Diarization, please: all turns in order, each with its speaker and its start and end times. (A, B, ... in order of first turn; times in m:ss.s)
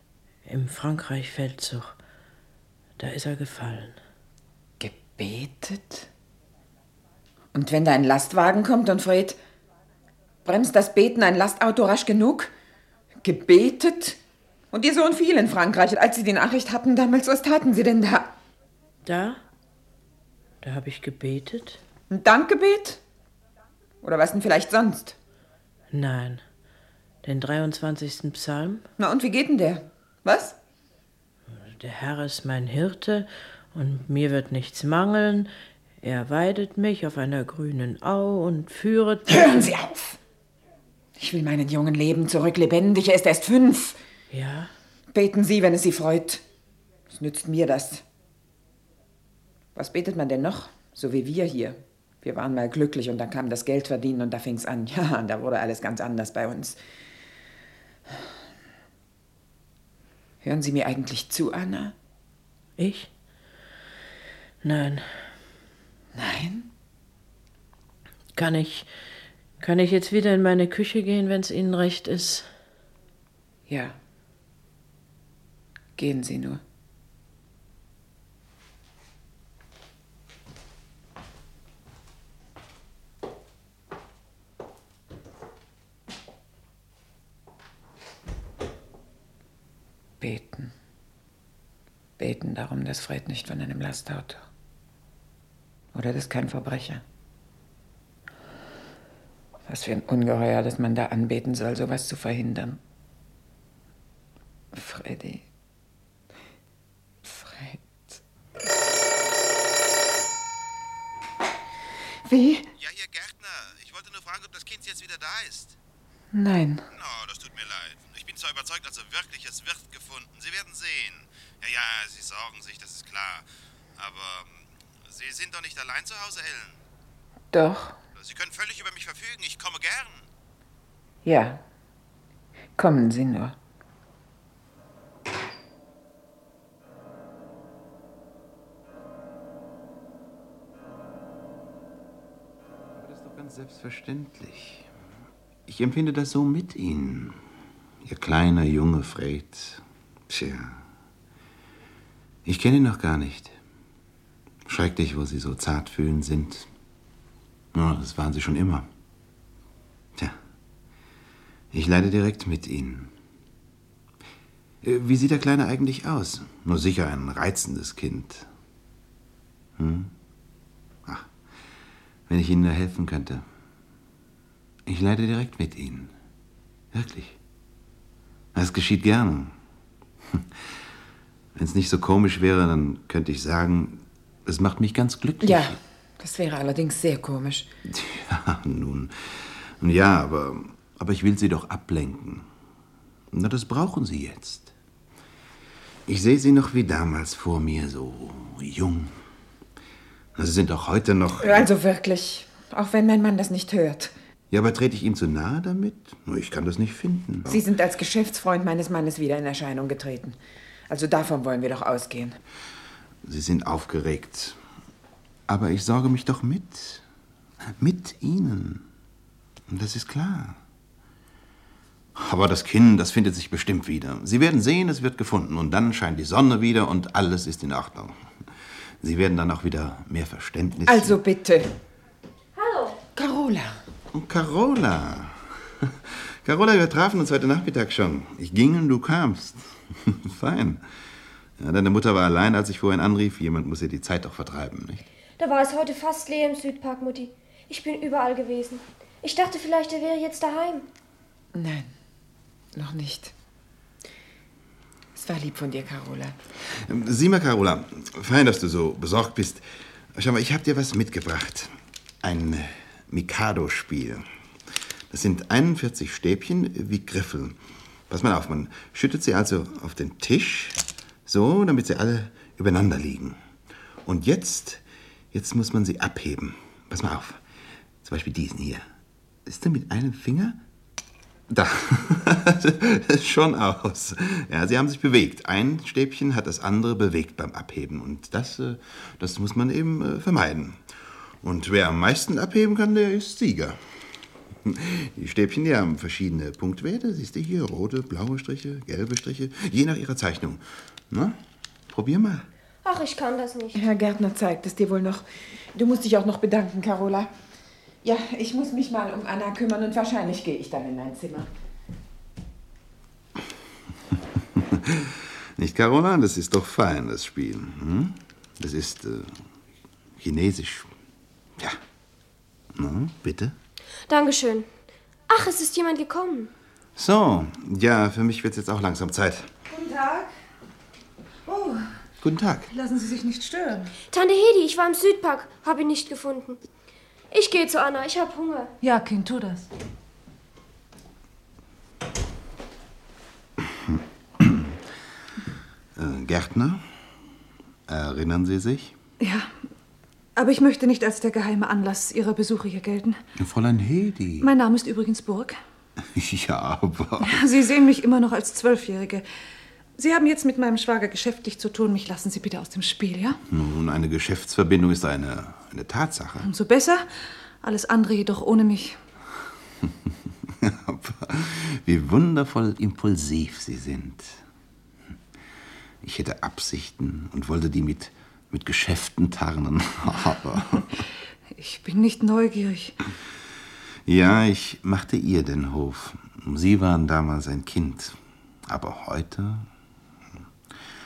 0:00.4-0:02.0 A
0:03.0-0:04.0 A
0:04.8-0:06.1 B
0:07.5-0:09.4 B
0:10.4-0:12.5 B
0:13.2-0:14.2 B
0:14.7-0:18.3 B
0:19.0-0:19.4 A
0:20.6-0:21.8 A
0:22.1-0:23.0 B
0:24.0-0:25.2 B
0:25.9-0:26.4 A
0:27.2-0:28.9 A
0:29.0-0:30.6 B
0:31.5-0:39.5 A
0:39.3-0:40.2 B
0:41.2-0:44.0 B
0:44.3-0:44.7 A
0:45.1-0:46.4 B
0:47.1-0:48.0 B
0:49.8-0:56.8 B
1:00.4-1:02.0 B
1:02.8-1:03.1 A
1:04.6-1:05.3 A
1:06.1-1:06.7 B
1:08.4-1:09.1 A
1:09.6-1:12.5 A
1:13.7-1:14.0 B
1:16.0-1:16.6 B
1:30.2-1:30.7 B
1:32.2-1:34.5 B
1:35.9-1:37.0 B
1:39.7-1:42.8 B
1:44.7-1:45.5 B
1:47.2-1:48.2 B
1:52.3-1:52.7 B
1:52.8-1:55.8 C
1:56.3-1:56.9 B
1:56.9-2:06.8 C
2:07.5-2:08.0 B
2:08.2-2:10.3 C
2:11.2-2:11.6 B
2:12.8-2:13.6 B
2:22.9-2:24.9 C
2:25.7-2:27.4 C
2:28.0-2:30.8 C
2:32.5-2:33.5 C
2:34.7-2:36.7 C
2:37.7-2:38.9 C
2:41.7-2:43.1 C
2:44.8-2:48.5 C
2:49.8-2:50.1 C
2:52.3-2:53.4 C
2:54.9-2:56.1 C
2:56.9-2:57.4 C
2:58.6-2:59.5 C
3:01.6-3:05.8 C
3:05.4-3:07.7 B
3:07.9-3:12.5 C
3:13.3-3:14.7 C
3:16.1-3:19.2 C
3:20.4-3:21.7 C
3:21.4-3:24.1 B
3:24.5-3:27.6 C
3:27.5-3:30.4 B
3:30.9-3:32.4 B
3:33.2-3:34.6 C
3:35.5-3:37.0 C
3:37.8-3:38.8 C
3:39.7-3:40.6 C
3:42.2-3:48.3 C
3:49.0-3:51.2 C
3:50.9-3:51.7 B
3:52.6-3:53.0 D
3:53.2-3:53.8 B
3:54.1-4:00.8 C
4:01.6-4:05.1 C
4:05.4-4:10.9 D
4:11.5-4:11.9 B
4:12.7-4:13.3 B
4:15.2-4:16.4 B
4:16.6-4:24.3 C
4:25.1-4:27.6 C
4:28.1-4:33.4 C
4:34.0-4:34.8 C
4:35.3-4:37.4 C
4:38.0-4:38.8 C
4:39.5-4:40.6 C
4:41.5-4:53.8 C
4:54.7-5:01.4 C
5:01.9-5:02.5 C
5:02.8-5:03.8 D
5:03.7-5:07.3 B
5:08.0-5:11.5 B
5:14.6-5:19.4 C
5:20.2-5:20.9 C
5:22.8-5:23.6 C
5:24.1-5:24.7 D
5:25.3-5:26.5 D
5:27.0-5:29.5 C
5:29.7-5:30.3 E
5:31.5-5:31.9 E
5:32.2-5:32.7 C
5:32.7-5:33.9 E
5:34.1-5:36.6 D
5:37.3-5:38.7 D
5:38.8-5:39.7 E
5:44.4-5:44.8 C
5:46.0-5:46.9 C
5:47.9-5:49.0 C
5:49.2-5:49.6 E
5:50.4-5:53.2 E
5:53.4-5:54.5 C
5:54.4-5:55.6 E
5:56.0-5:57.4 C
5:57.2-5:59.2 E
6:00.0-6:03.4 E
6:03.5-6:06.5 C
6:06.4-6:07.1 E
6:07.6-6:09.0 E
6:10.5-6:14.4 C
6:16.0-6:20.9 C
6:21.6-6:23.0 E
6:24.1-6:29.7 C